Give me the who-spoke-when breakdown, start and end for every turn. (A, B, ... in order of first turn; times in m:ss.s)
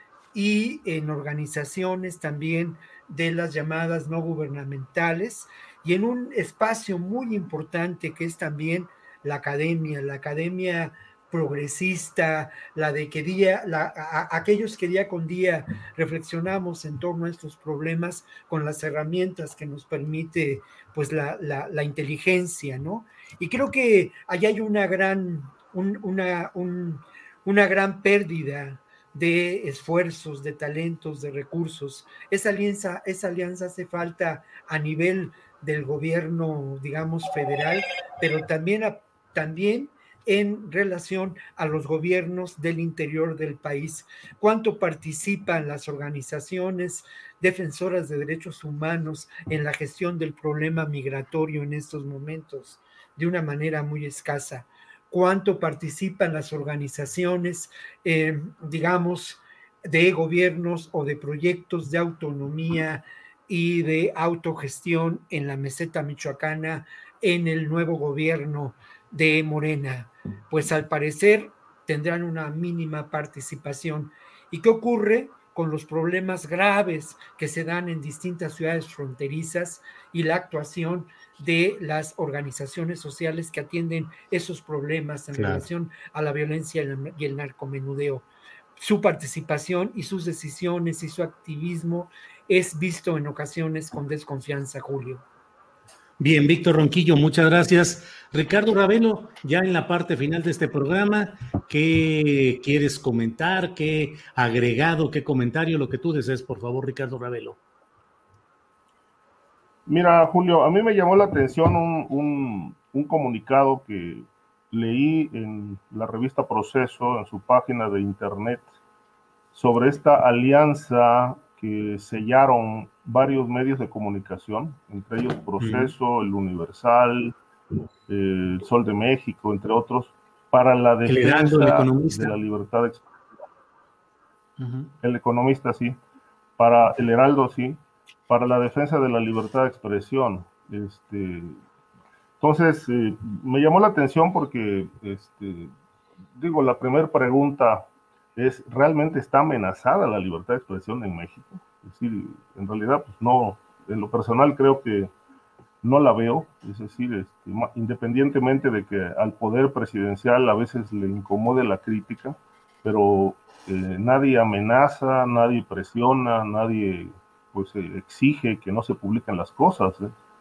0:00.3-1:35.2 A
1:25.3-1:25.6 B
1:36.2-1:47.6 B
1:49.9-1:58.7 C
1:59.5-2:07.3 C
2:05.6-2:05.9 B
2:08.1-2:13.2 C
2:11.0-2:12.3 B
2:14.6-2:14.9 B
2:15.0-2:16.0 C
2:16.6-2:21.6 C
2:22.4-2:25.7 C
2:26.4-2:35.1 C
2:35.8-2:50.1 C